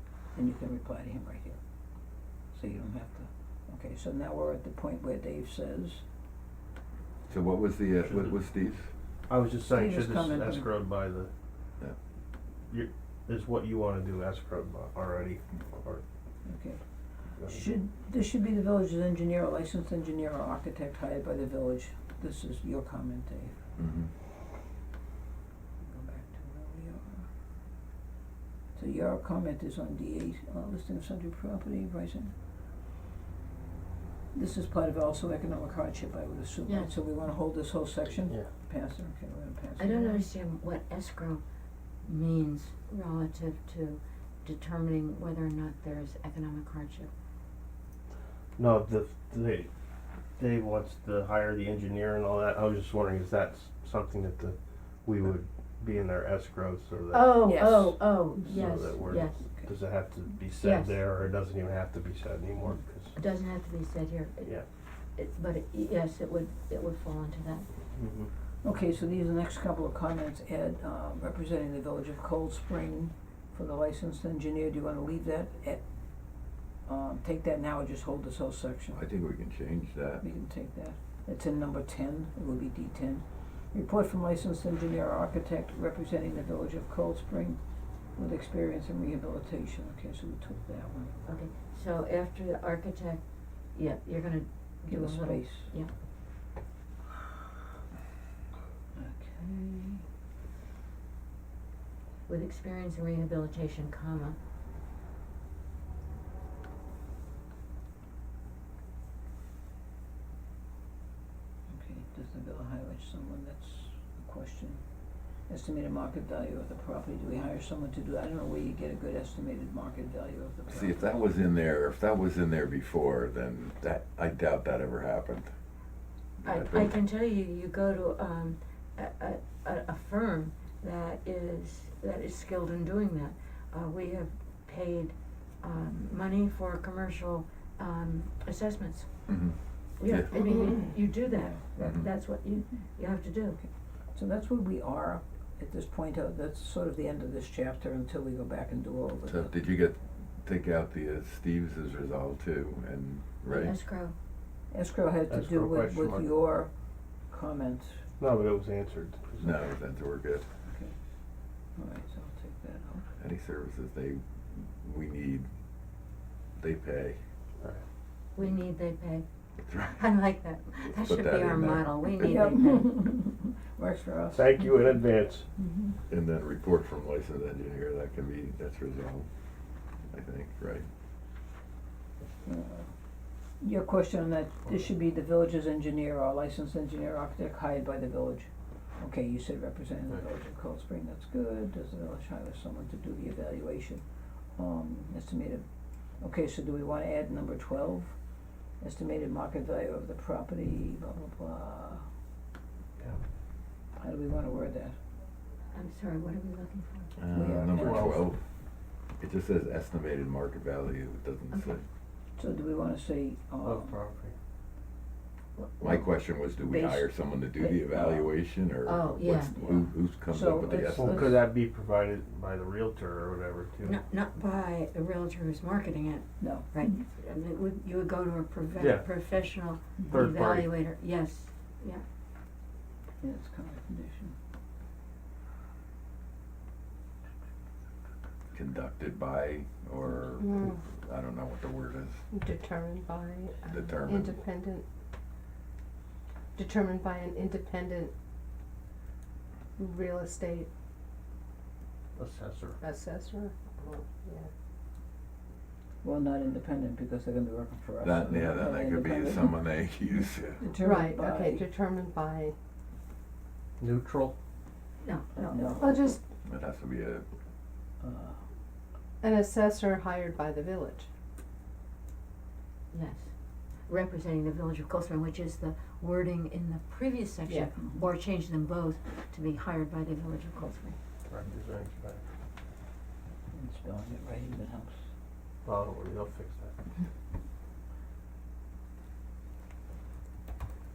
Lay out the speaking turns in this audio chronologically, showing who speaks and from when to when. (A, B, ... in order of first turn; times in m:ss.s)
0:00.3-0:01.6 A
0:02.5-0:06.0 A
0:07.3-0:08.8 B
0:08.0-0:08.3 C
0:09.3-0:11.3 C
0:09.7-0:10.7 A
0:12.7-0:16.0 C
0:16.4-0:16.8 A
0:17.4-0:17.7 C
0:17.4-0:23.6 A
0:23.8-0:24.1 B
0:25.8-0:27.3 A
0:28.7-0:32.3 A
0:34.3-0:40.2 A
0:36.6-0:36.9 D
0:39.8-0:41.4 D
0:42.0-0:47.1 D
0:48.6-0:49.7 C
0:50.4-0:57.3 C
0:57.1-0:57.5 E
0:57.1-0:59.4 D
0:57.4-0:58.0 A
0:58.4-1:03.2 C
1:00.6-1:01.0 D
1:03.2-1:04.6 D
1:05.1-1:07.7 D
1:07.9-1:08.3 C
1:08.6-1:15.8 A
1:16.8-1:19.0 A
1:18.9-1:20.2 B
1:20.2-1:27.6 A
1:28.2-1:31.2 A
1:31.2-1:35.9 D
1:34.9-1:35.7 A
1:38.9-1:40.0 A
1:42.3-1:44.4 D
1:51.7-1:54.8 A
1:55.5-2:01.2 A
2:00.7-2:05.5 B
2:06.4-2:19.3 D
2:06.5-2:07.0 B
2:19.3-2:20.3 B
2:20.0-2:23.6 D
2:20.3-2:20.9 E
2:21.3-2:21.6 A
2:23.6-2:29.5 A
2:29.3-2:33.7 B
2:33.5-2:34.2 D
2:34.7-2:36.7 A
2:35.3-2:36.3 C
2:37.3-2:38.0 A
2:38.2-2:39.7 C
2:39.4-2:40.4 B
2:40.6-2:40.9 A
2:41.8-2:43.1 A
2:43.2-2:45.5 B
2:46.6-2:47.2 B
2:48.3-2:49.2 D
2:49.7-2:50.0 B
2:49.9-2:52.9 D
2:51.0-2:52.5 B
2:52.2-2:54.7 A
2:54.3-2:55.5 C
2:55.6-2:56.0 A
2:56.1-2:59.3 B
3:00.1-3:00.9 B
3:02.4-3:02.9 A
3:03.6-3:14.0 A
3:14.5-3:15.6 A
3:16.2-3:18.2 A
3:18.8-3:22.0 A
3:24.0-3:25.0 A
3:25.7-3:27.1 D
3:27.2-3:28.4 B
3:27.3-3:28.2 A
3:27.8-3:28.2 C
3:29.2-3:31.8 B
3:32.4-3:34.0 A
3:33.6-3:34.3 C
3:35.6-3:36.0 D
3:35.8-3:41.4 B
3:36.7-3:38.3 A
3:38.8-3:39.5 D
3:39.5-3:41.4 A
3:40.9-3:44.0 C
3:43.8-3:52.0 D
3:46.4-3:46.9 A
3:48.8-3:49.1 C
3:50.1-3:50.8 C
3:53.2-3:54.4 A
3:58.5-4:02.2 B
4:00.4-4:00.8 E
4:02.3-4:04.8 E
4:03.7-4:04.4 B
4:06.5-4:08.1 E
4:09.8-4:10.7 E
4:12.2-4:12.8 C
4:12.8-4:14.5 E
4:16.0-4:19.6 A
4:18.0-4:20.6 B
4:20.6-4:21.6 A
4:20.7-4:22.5 E
4:23.8-4:24.3 C
4:25.0-4:25.9 D
4:25.4-4:25.9 A
4:25.8-4:26.2 E
4:26.4-4:27.2 B
4:28.0-4:28.4 A
4:29.2-4:31.1 E
4:32.9-4:41.0 D
4:37.4-4:37.7 E
4:41.3-4:42.2 C
4:43.5-4:45.0 A
4:45.6-4:46.7 C